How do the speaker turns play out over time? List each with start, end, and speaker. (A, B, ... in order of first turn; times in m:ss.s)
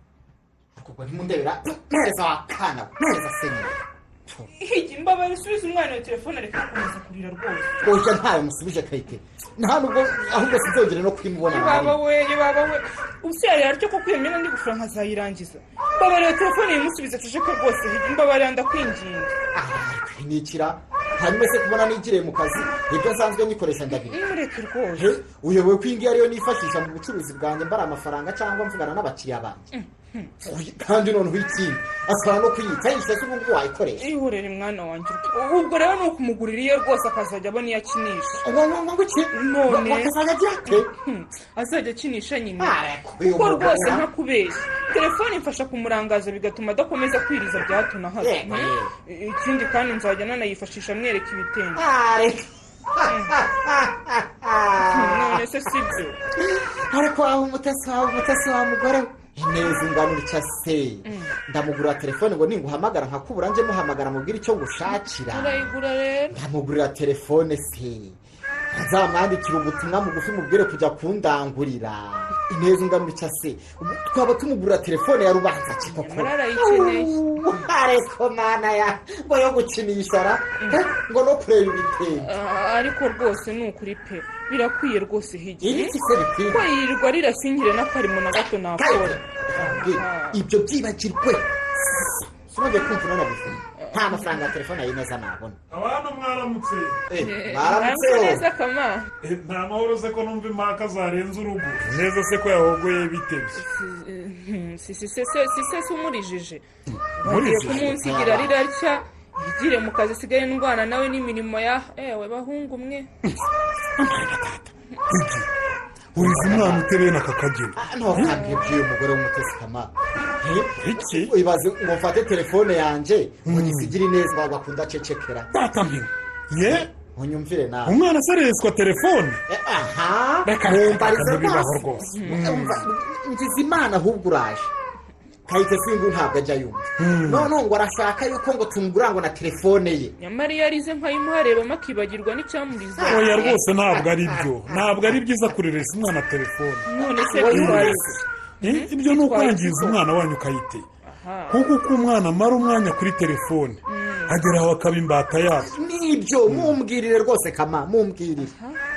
0:00.7-0:04.5 A
0:04.6-0:07.7 B
0:07.8-0:12.0 A
0:11.5-0:19.3 B
0:19.5-0:24.2 A
0:23.9-0:25.1 B
0:24.9-0:29.7 A
0:29.7-0:30.3 B
0:30.4-0:34.1 A
0:34.0-0:38.4 B
0:38.4-0:40.9 A
0:39.3-0:51.8 B
0:42.6-0:44.1 A
0:48.2-0:48.9 A
0:51.8-0:55.4 A
0:53.1-0:53.3 B
0:54.8-0:56.2 B
0:56.4-1:05.7 A
1:01.0-1:01.4 B
1:04.9-1:06.4 B
1:06.3-1:08.2 A
1:08.7-1:22.3 A
1:15.9-1:17.1 B
1:22.2-1:26.0 B
1:25.6-1:26.6 A
1:26.5-1:30.4 B
1:28.8-1:35.6 A
1:33.8-1:34.5 B
1:35.7-1:37.0 C
1:37.1-1:38.4 A
1:37.2-1:39.1 B
1:39.2-1:43.6 C
1:43.6-1:46.6 B
1:47.2-1:47.9 C
1:47.2-1:48.6 A
1:47.2-1:53.1 B
1:54.0-1:55.5 C
1:56.1-1:58.4 C
1:56.1-1:56.9 A
1:57.8-2:05.5 A
1:58.1-1:58.8 B
2:00.8-2:01.3 C
2:03.4-2:04.0 C
2:05.5-2:06.9 C
2:06.6-2:08.0 A
2:07.8-2:09.4 C
2:09.5-2:14.7 A
2:10.4-2:12.9 C
2:12.1-2:12.6 B
2:15.5-2:20.1 A
2:17.0-2:17.5 C
2:20.2-2:23.6 B
2:23.0-2:25.2 A
2:23.1-2:26.9 C
2:26.9-2:30.0 B
2:27.0-2:28.2 A
2:27.4-2:30.9 C
2:31.0-2:31.7 B
2:31.5-2:35.7 C
2:33.9-2:34.4 B
2:35.6-2:38.5 A
2:36.5-2:36.8 C
2:38.4-2:38.8 B